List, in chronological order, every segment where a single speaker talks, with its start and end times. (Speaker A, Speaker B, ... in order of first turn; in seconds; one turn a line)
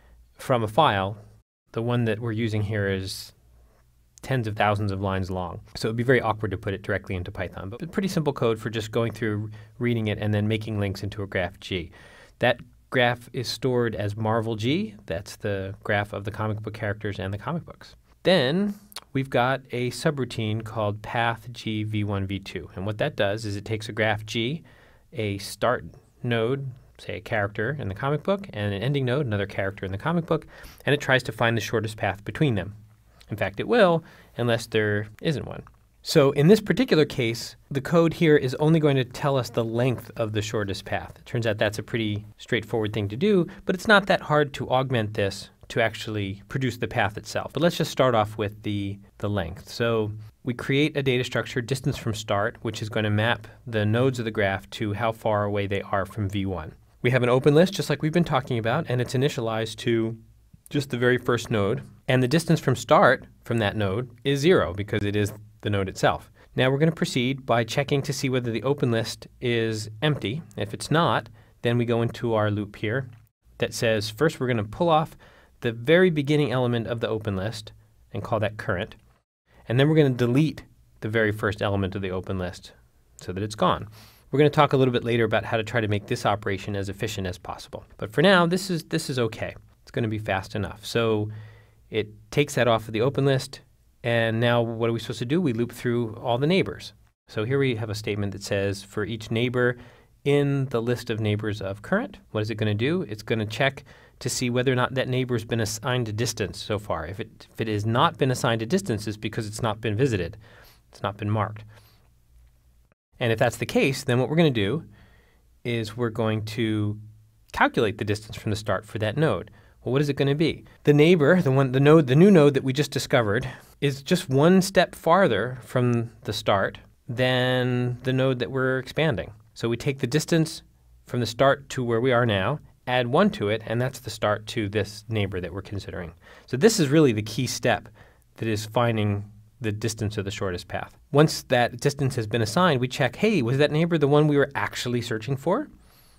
Speaker A: 0.4-1.2
Speaker A: 1.7-3.3
Speaker A: 4.2-32.7
Speaker A: 33.3-60.2
Speaker A: 60.7-73.1
Speaker A: 73.6-79.0
Speaker A: 79.7-91.3
Speaker A: 91.9-110.4
Speaker A: 110.9-111.6
Speaker A: 113.2-114.8
Speaker A: 115.6-117.0
Speaker A: 117.5-145.7